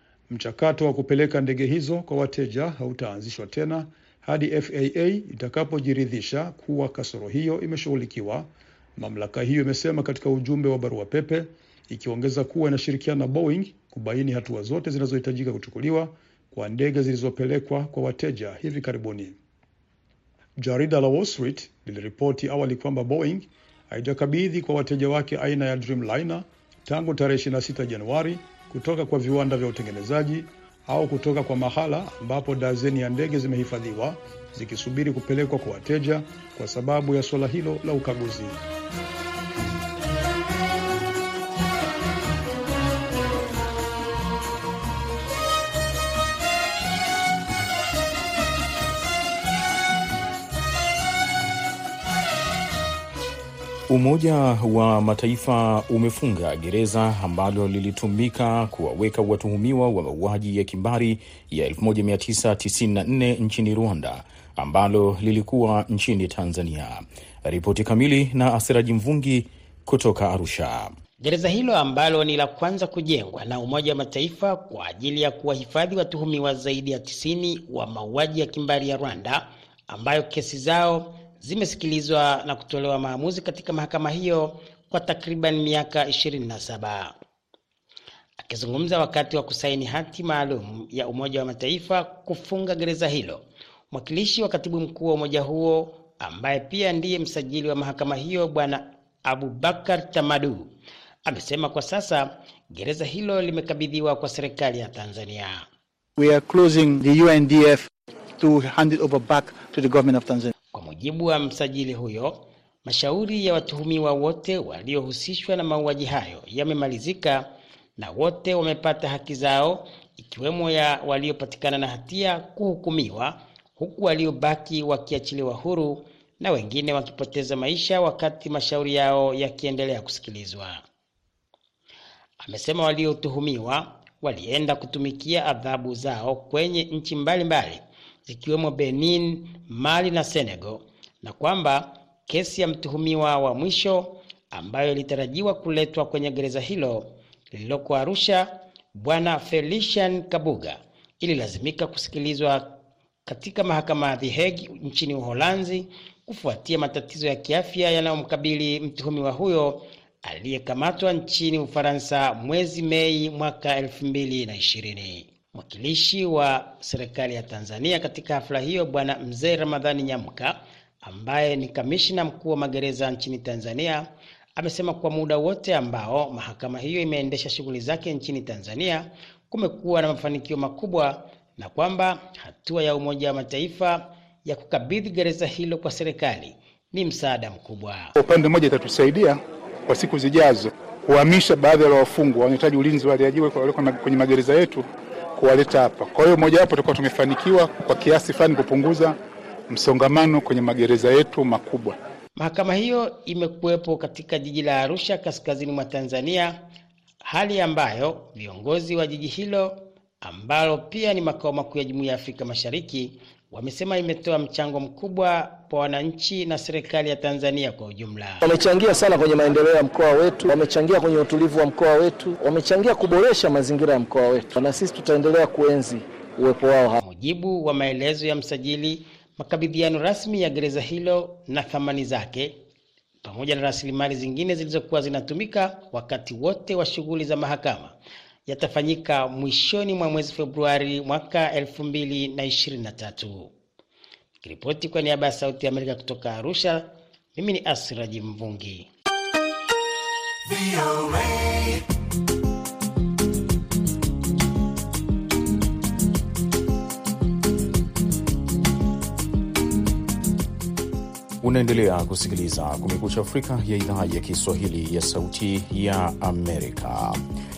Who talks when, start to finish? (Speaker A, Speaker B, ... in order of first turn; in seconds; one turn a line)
Speaker A: 0.3-19.4
Speaker A: 20.6-38.6
Speaker B: 53.9-71.0
Speaker C: 71.2-87.1
Speaker C: 88.4-100.7
Speaker C: 101.2-105.7
Speaker D: 106.2-110.5
Speaker C: 110.7-130.8
Speaker C: 132.4-188.1
Speaker E: 188.2-199.2
Speaker E: 199.7-201.9
Speaker C: 202.4-206.6
Speaker C: 207.2-218.4
Speaker F: 218.4-227.0
Speaker C: 227.0-232.6
Speaker C: 233.2-237.9
Speaker C: 238.5-243.5
Speaker C: 244.4-248.9
Speaker B: 261.4-267.2